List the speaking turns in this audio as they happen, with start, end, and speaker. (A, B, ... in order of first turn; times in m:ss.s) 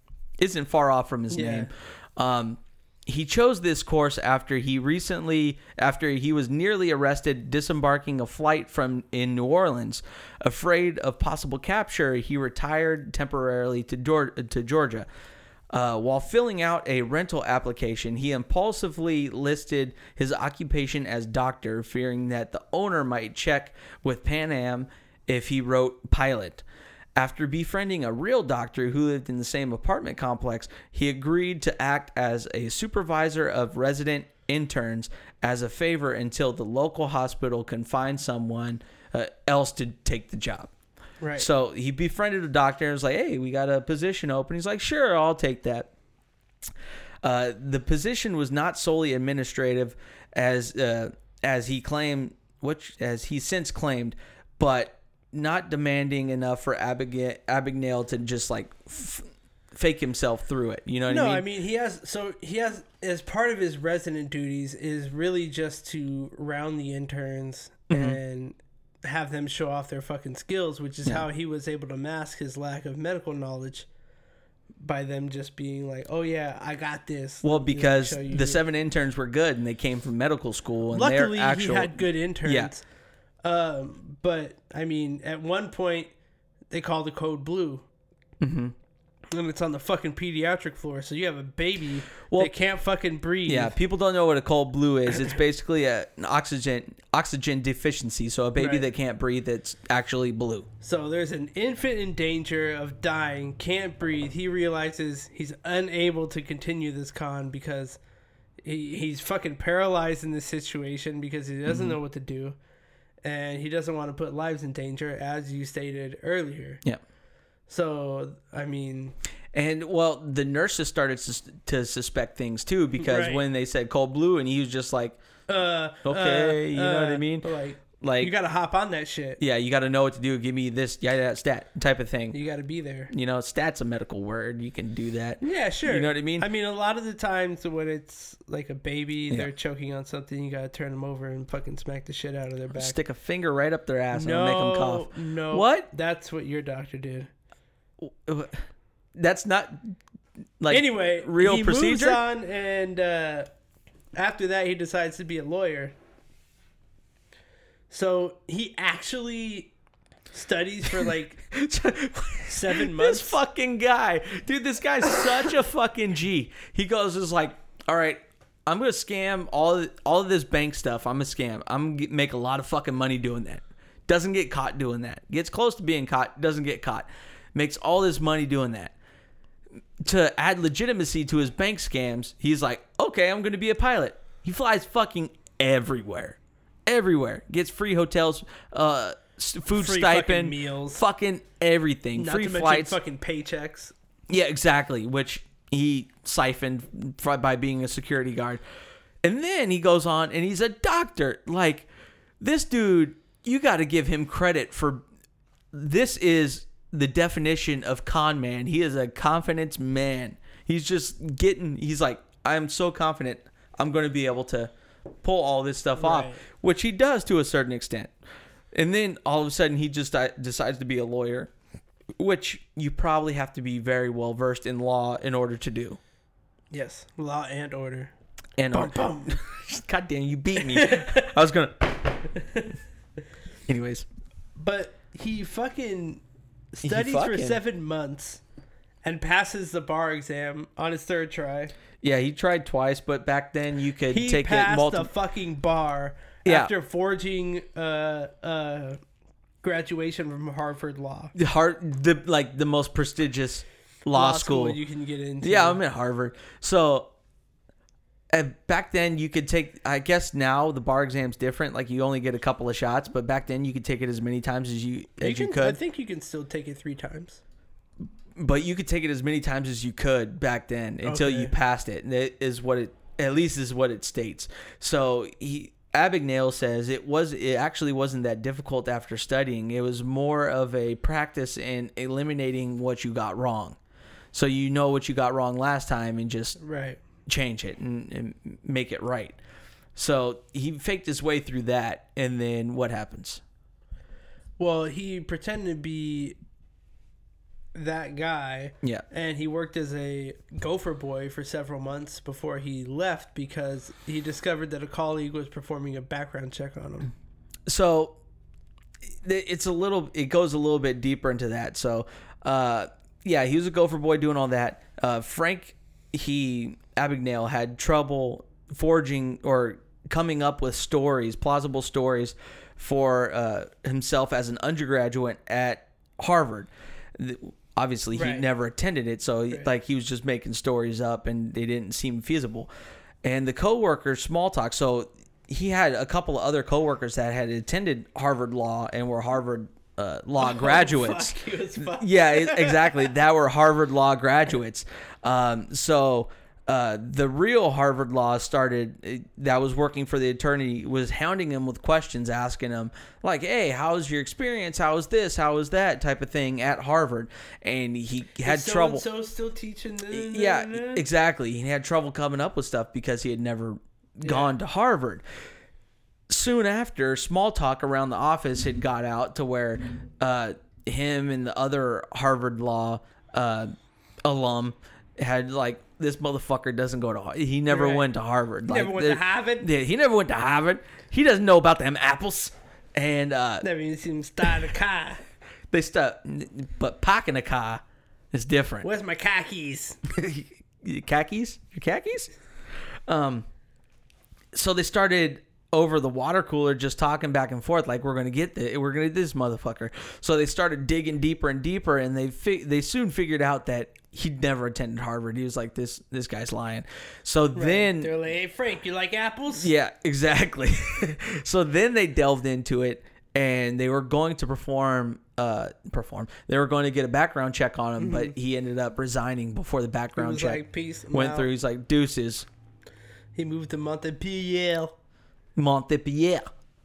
0:00.4-0:15.1 A
0:01.3-0:01.7 B
0:15.7-0:26.6 A
0:27.2-0:40.7 A
0:41.2-0:41.5 B
0:41.4-0:45.9 A
0:47.2-1:01.4 A
1:01.1-1:13.9 B
1:07.9-1:08.2 A
1:14.8-1:18.6 B
1:17.4-1:22.7 A
1:20.9-1:22.8 B
1:23.4-1:26.1 B
1:26.7-1:27.9 B
1:28.4-1:28.8 A
1:29.3-1:33.8 B
1:33.5-1:40.7 A
1:35.1-1:35.4 B
1:38.6-1:38.9 B
1:40.8-1:48.0 B
1:48.6-1:52.6 B
1:51.7-1:52.0 A
1:53.2-1:56.8 B
1:57.7-1:59.2 B
1:59.5-2:05.2 A
2:03.0-2:03.4 B
2:05.5-2:09.4 B
2:06.0-2:08.3 A
2:09.4-2:12.4 A
2:12.3-2:13.1 B
2:13.1-2:16.5 A
2:15.4-2:23.0 B
2:22.8-2:25.9 A
2:24.1-2:27.3 B
2:28.0-2:28.6 A
2:29.2-2:30.0 A
2:30.6-2:32.2 A
2:30.7-2:33.5 B
2:34.2-2:35.9 B
2:37.9-2:39.7 B
2:40.3-2:41.4 B
2:41.5-2:58.9 A
2:42.5-2:43.4 B
3:00.0-3:13.0 A
3:09.7-3:11.0 B
3:12.2-3:13.9 B
3:14.3-3:18.6 A
3:19.2-3:21.9 A
3:22.4-3:25.0 A
3:25.7-3:34.7 A
3:35.2-3:38.1 A
3:36.0-3:36.4 B
3:38.7-3:41.5 A
3:42.2-3:46.0 A
3:46.7-3:48.1 B
3:48.6-3:52.1 A
3:48.7-3:49.4 B
3:50.6-3:51.4 B
3:52.4-3:52.7 B
3:53.7-3:54.1 A
3:54.6-3:58.4 B
3:56.8-3:57.6 A
3:59.0-4:01.7 B
4:02.0-4:05.1 A
4:04.1-4:09.0 B
4:06.4-4:06.7 A
4:09.6-4:11.3 B
4:11.4-4:14.8 A
4:14.1-4:15.8 B
4:15.4-4:17.1 A
4:18.3-4:25.8 A
4:25.2-4:27.4 B
4:28.4-4:43.8 A
4:31.0-4:31.5 B
4:44.3-4:46.6 A
4:46.6-4:47.0 B
4:47.3-4:49.4 A
4:50.0-4:53.4 A
4:54.6-4:56.4 B
4:57.7-5:07.1 B
5:07.7-5:08.2 A
5:09.2-5:32.7 A
5:28.2-5:28.4 B
5:33.2-5:59.0 A
5:40.4-5:43.1 B
5:58.4-6:01.0 B
6:00.1-6:05.2 A
6:04.2-6:04.6 B
6:06.3-6:13.7 A
6:14.2-6:23.6 A
6:17.7-6:18.1 B
6:18.7-6:19.7 B
6:23.6-6:25.2 B
6:25.7-6:28.9 A
6:28.8-6:30.0 B
6:30.1-6:32.3 A
6:33.1-6:33.5 A
6:34.5-6:48.1 A
6:47.6-6:49.7 B
6:49.5-7:02.5 A
6:58.0-6:58.3 B
7:00.2-7:01.5 B
7:03.4-7:05.0 B
7:05.6-7:06.4 A